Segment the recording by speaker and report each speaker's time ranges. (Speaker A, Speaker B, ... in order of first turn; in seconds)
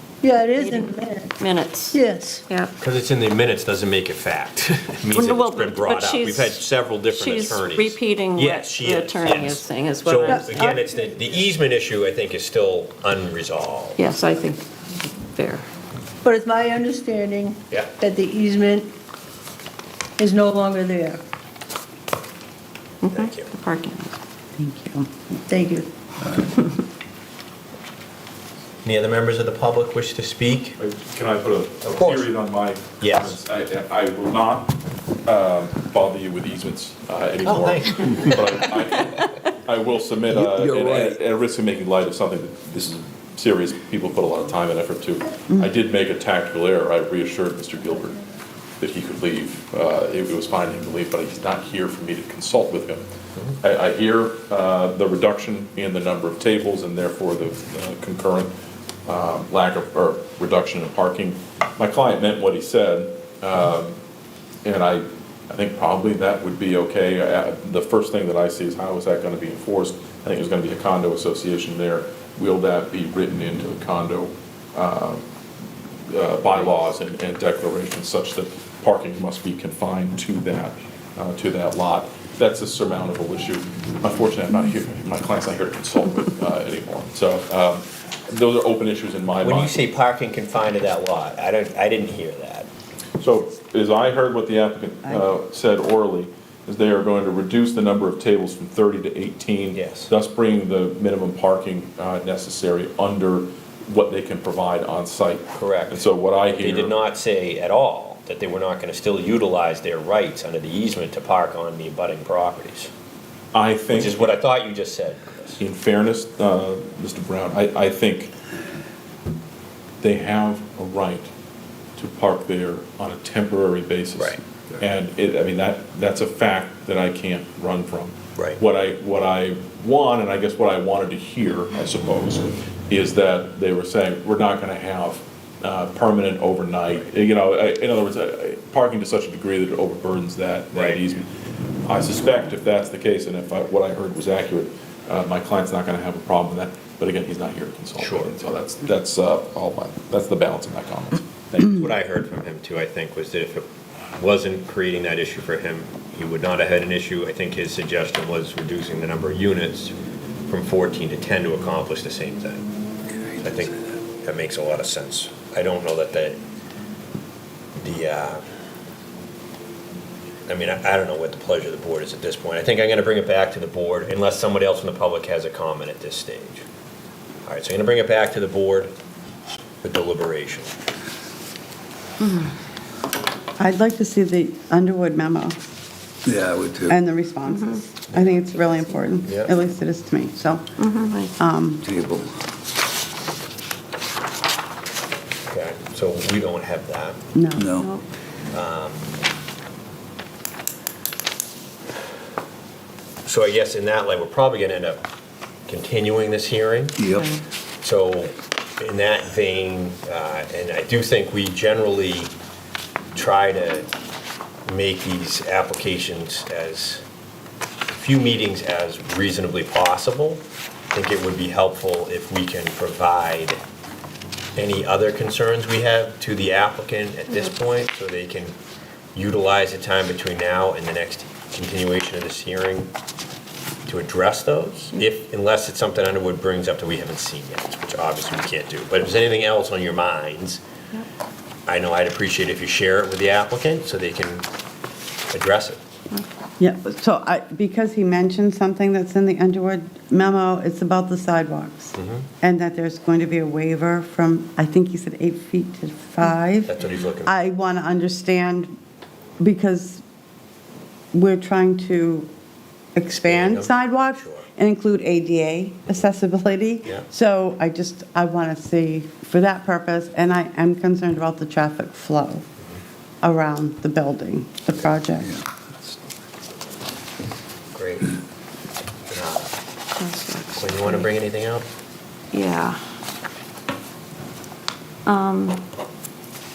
Speaker A: 0.2-1.3, 1.9-2.4, 10.3-10.7, 16.2-18.9, 20.2-21.2, 25.5-25.9
Speaker B: 0.6-2.7, 5.1-10.8, 14.0-15.7, 23.0-24.2, 187.5-187.8, 188.6-189.0, 190.8-191.3, 197.7-198.0, 207.0-207.4, 280.0-281.1, 282.3-282.8, 285.1-285.6
Speaker C: 2.8-14.0, 23.1-23.5, 28.9-30.8, 31.8-32.3, 33.0-33.4, 37.4-38.6, 89.4-92.7, 99.7-100.1, 105.5-112.9, 113.9-115.6, 128.4-128.6, 140.7-141.0, 148.0-148.3, 151.6-153.7, 154.2-159.9, 160.5-162.7, 163.4-166.4, 167.8-168.4, 170.5-176.7, 177.5-178.9, 179.8-180.7, 189.2-189.5, 195.5-197.2, 198.5-199.2, 203.3-205.0, 205.7-207.0, 207.8-212.3, 213.2-213.9, 214.7-217.0, 217.9-223.6, 224.6-228.6, 229.2-232.9, 233.9-240.6, 241.7-244.5, 245.3-245.8, 251.9-252.3, 256.7-257.3, 263.2-264.4, 277.7-278.1, 279.1-279.5, 280.6-281.7
Speaker D: 24.6-25.1, 45.5-45.8, 183.6-185.6, 186.9-190.7, 191.4-191.9, 197.3-197.8, 246.6-258.7, 259.4-260.0, 261.1-262.3, 262.9-272.4, 273.2-275.4
Speaker E: 30.8-48.2, 48.8-53.0, 53.6-58.5, 59.1-64.0, 64.7-75.2, 76.1-89.8, 93.2-107.0, 113.5-114.3, 115.6-118.3, 120.0-121.3, 122.0-141.3, 141.8-151.7
Speaker F: 40.4-41.1, 186.3-186.9, 191.8-192.3, 197.6-197.9, 207.0-207.3, 275.3-276.0